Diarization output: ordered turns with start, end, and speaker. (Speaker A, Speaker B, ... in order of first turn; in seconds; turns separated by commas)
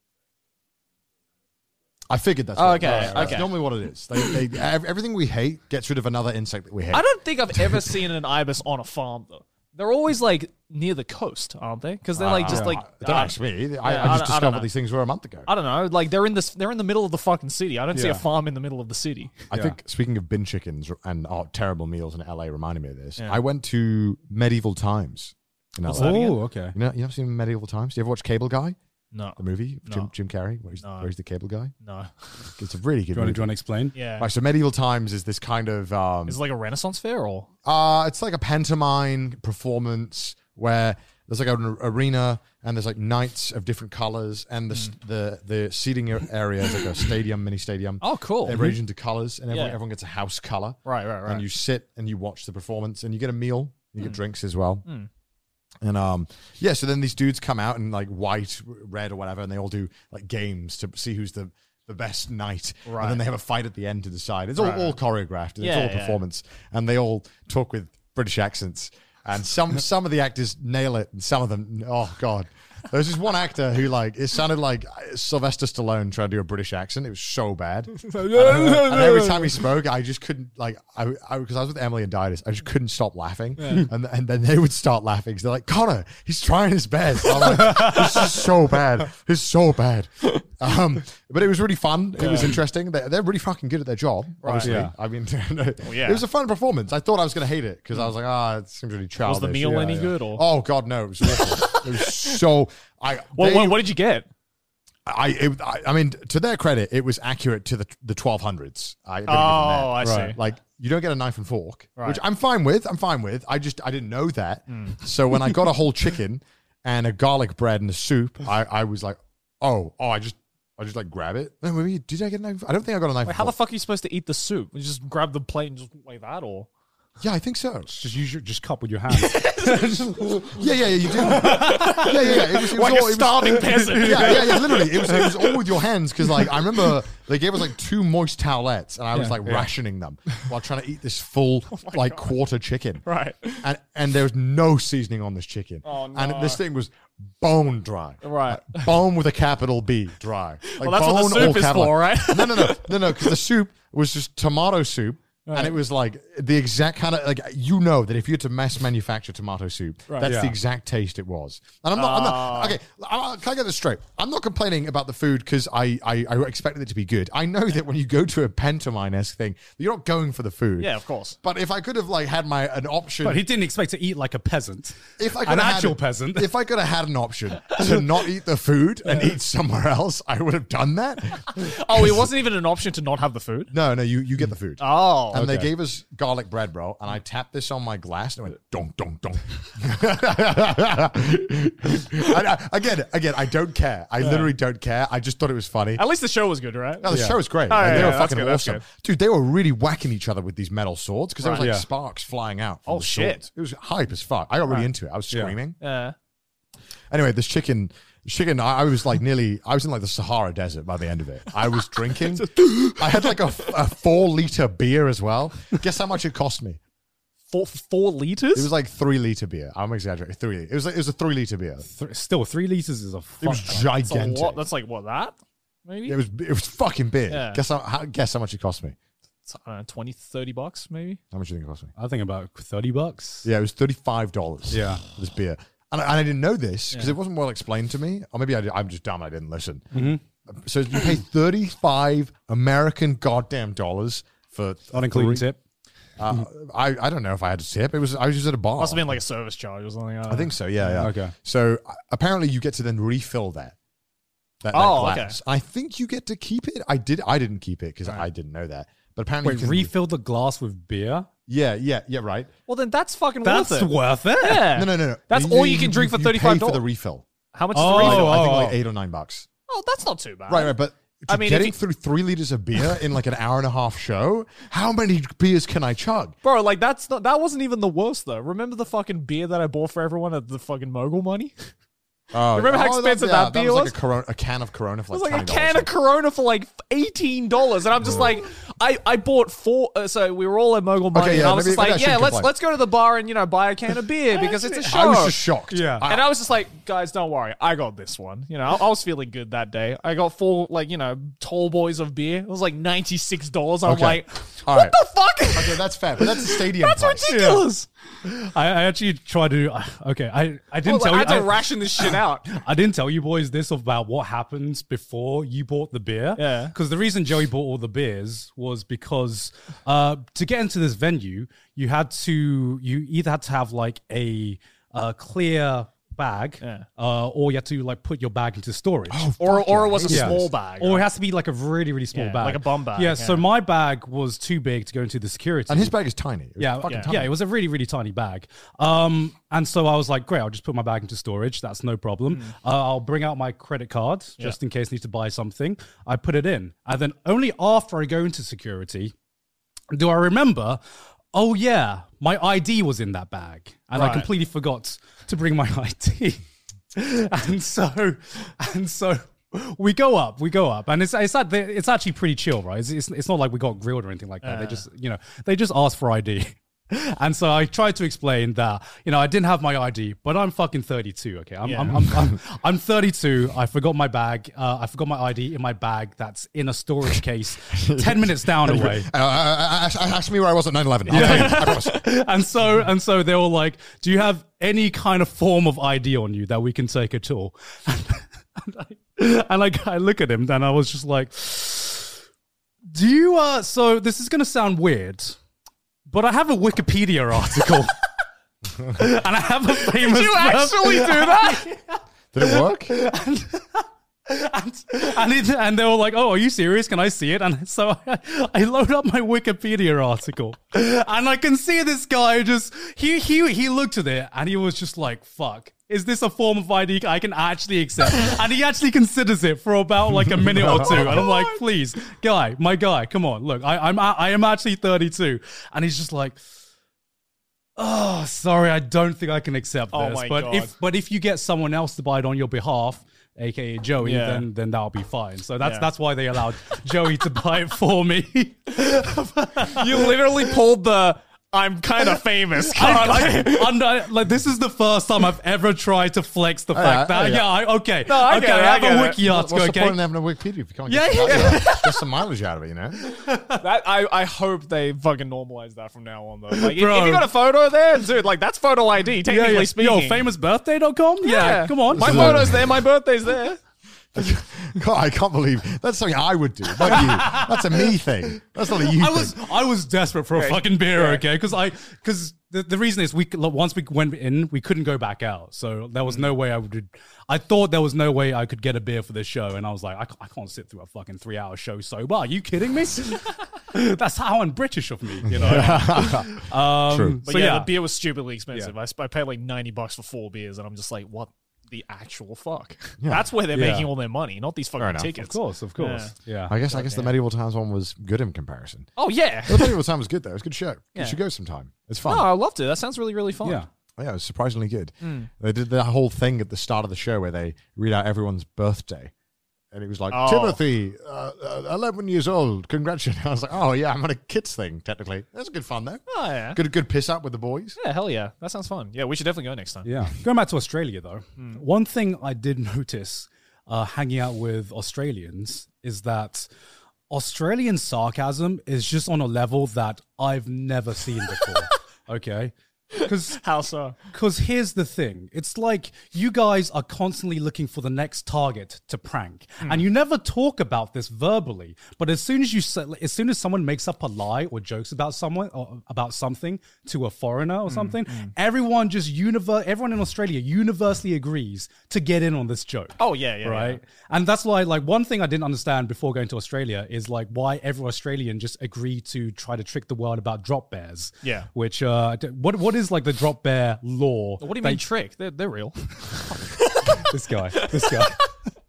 Speaker A: 2.1-7.9, Speaker B: 2.5-3.6, Speaker C: 2.8-3.4, Speaker B: 6.9-14.7, Speaker A: 12.2-15.5, Speaker C: 12.5-12.8, Speaker B: 15.4-19.4, Speaker C: 17.9-18.2, Speaker A: 19.5-28.8, Speaker C: 19.5-19.8, Speaker B: 25.8-26.4, Speaker C: 25.9-26.7, Speaker B: 29.1-30.1, Speaker A: 29.4-31.7, Speaker B: 30.8-31.1, Speaker B: 31.8-32.5, Speaker A: 32.6-33.5, Speaker C: 33.1-33.9, Speaker B: 33.9-34.3, Speaker A: 34.2-36.4, Speaker B: 36.3-37.5, Speaker A: 37.6-54.9, Speaker B: 48.0-48.6, Speaker B: 49.5-49.8, Speaker B: 50.8-51.4, Speaker A: 55.8-103.8, Speaker B: 62.9-63.2, Speaker B: 64.6-65.0, Speaker B: 65.6-66.2, Speaker B: 78.0-79.6, Speaker B: 83.6-83.9, Speaker B: 92.2-92.6, Speaker B: 94.4-94.8, Speaker C: 94.6-94.9, Speaker B: 95.8-96.2, Speaker B: 99.2-100.4, Speaker C: 99.6-100.1, Speaker B: 101.2-102.4, Speaker B: 103.3-104.3, Speaker A: 105.0-123.5, Speaker B: 109.3-110.4, Speaker C: 110.0-110.3, Speaker B: 114.7-115.0, Speaker B: 123.2-126.7, Speaker A: 127.2-127.9, Speaker C: 127.9-130.6, Speaker B: 129.1-129.8, Speaker A: 130.4-143.0, Speaker C: 131.2-132.1, Speaker B: 131.3-135.7, Speaker C: 133.7-134.6, Speaker B: 139.1-139.5, Speaker B: 141.7-142.3, Speaker B: 143.1-143.6, Speaker A: 143.6-170.9, Speaker B: 145.8-146.6, Speaker B: 148.2-148.9, Speaker B: 150.7-153.3, Speaker B: 155.4-155.8, Speaker C: 160.2-160.5, Speaker B: 161.9-162.8, Speaker B: 170.8-171.3, Speaker A: 171.4-173.4, Speaker C: 173.2-176.5, Speaker A: 175.2-182.3, Speaker B: 181.5-183.7, Speaker A: 183.7-196.0, Speaker B: 184.8-185.5, Speaker C: 185.3-185.7, Speaker B: 194.2-194.5, Speaker B: 195.9-197.1, Speaker A: 197.0-205.8, Speaker C: 197.1-198.1, Speaker B: 197.7-198.8, Speaker B: 201.4-201.7, Speaker C: 201.6-201.8, Speaker B: 202.9-203.4, Speaker B: 205.8-206.1, Speaker A: 207.1-216.8, Speaker B: 212.3-213.5, Speaker B: 217.5-218.7, Speaker A: 218.5-221.8, Speaker C: 221.8-223.9, Speaker A: 223.4-224.6, Speaker B: 223.9-226.2, Speaker A: 226.1-228.9, Speaker B: 227.3-227.6, Speaker B: 229.4-231.2, Speaker A: 231.3-231.9, Speaker C: 232.0-233.5, Speaker A: 233.4-245.4, Speaker C: 234.7-235.0, Speaker C: 239.9-240.2, Speaker C: 244.9-245.6, Speaker A: 246.2-249.2, Speaker B: 248.8-251.1, Speaker A: 250.3-253.7, Speaker C: 251.0-251.3, Speaker A: 254.6-259.9, Speaker B: 254.7-255.4, Speaker C: 259.4-261.3, Speaker A: 261.5-262.5, Speaker B: 262.7-266.8, Speaker C: 263.4-264.7, Speaker A: 264.7-269.5, Speaker B: 267.5-268.7, Speaker C: 267.7-268.8, Speaker B: 269.7-270.7, Speaker A: 270.5-276.4, Speaker B: 271.3-271.8, Speaker B: 276.4-281.5, Speaker A: 282.3-285.9, Speaker B: 282.5-283.9, Speaker B: 285.1-295.4, Speaker A: 291.1-292.5, Speaker C: 294.3-295.0, Speaker A: 294.9-296.3, Speaker C: 295.7-296.1, Speaker B: 296.0-307.9, Speaker A: 303.8-305.0, Speaker A: 305.5-307.3, Speaker C: 307.3-307.7, Speaker C: 308.2-329.3, Speaker B: 310.8-312.5, Speaker B: 316.4-316.7, Speaker B: 326.6-326.9, Speaker A: 329.1-330.5, Speaker B: 329.4-331.1, Speaker C: 330.1-335.9, Speaker B: 332.1-333.4, Speaker A: 335.7-337.3, Speaker C: 336.6-349.1, Speaker C: 349.9-350.8, Speaker C: 351.3-356.4, Speaker B: 353.9-354.3, Speaker C: 356.9-379.1, Speaker B: 364.4-364.8, Speaker B: 371.6-372.0, Speaker A: 372.1-372.3, Speaker A: 377.7-382.0, Speaker C: 381.1-392.1, Speaker B: 381.1-381.8, Speaker C: 392.9-395.4, Speaker C: 396.1-397.9, Speaker C: 398.9-426.4, Speaker B: 399.8-401.6, Speaker A: 402.3-402.9, Speaker A: 420.3-421.2, Speaker B: 420.7-421.6, Speaker C: 427.8-440.3, Speaker B: 429.9-430.7, Speaker B: 434.0-434.5, Speaker B: 435.6-435.9, Speaker B: 439.6-443.8, Speaker C: 442.7-450.0, Speaker A: 446.7-447.5, Speaker B: 448.1-449.2, Speaker A: 449.2-453.0, Speaker C: 450.9-451.9, Speaker B: 451.2-451.8, Speaker C: 453.0-453.6, Speaker B: 453.6-460.2, Speaker C: 456.5-457.3, Speaker C: 459.3-462.6, Speaker B: 461.2-463.6, Speaker A: 461.9-462.8, Speaker A: 464.1-469.3, Speaker C: 466.9-467.9, Speaker C: 468.8-487.7, Speaker B: 470.3-471.2, Speaker B: 476.0-476.3, Speaker A: 485.2-487.2, Speaker B: 485.4-485.8, Speaker B: 487.2-496.1, Speaker C: 493.5-493.9, Speaker A: 494.8-495.1, Speaker C: 495.1-496.5, Speaker A: 496.5-498.9, Speaker B: 496.7-497.1, Speaker B: 499.0-499.8, Speaker A: 499.4-502.3, Speaker B: 502.1-503.6, Speaker A: 504.0-509.1, Speaker B: 505.0-505.3, Speaker A: 509.7-516.0, Speaker B: 510.1-510.6, Speaker B: 516.1-516.6, Speaker A: 516.5-517.8, Speaker B: 517.8-519.9, Speaker C: 519.8-526.5, Speaker B: 521.4-521.6, Speaker C: 527.1-533.4, Speaker B: 533.0-534.0, Speaker C: 534.1-564.8, Speaker B: 547.7-548.3, Speaker B: 553.0-553.8, Speaker B: 561.2-561.5, Speaker B: 564.4-567.0, Speaker C: 567.0-568.2, Speaker B: 567.5-568.2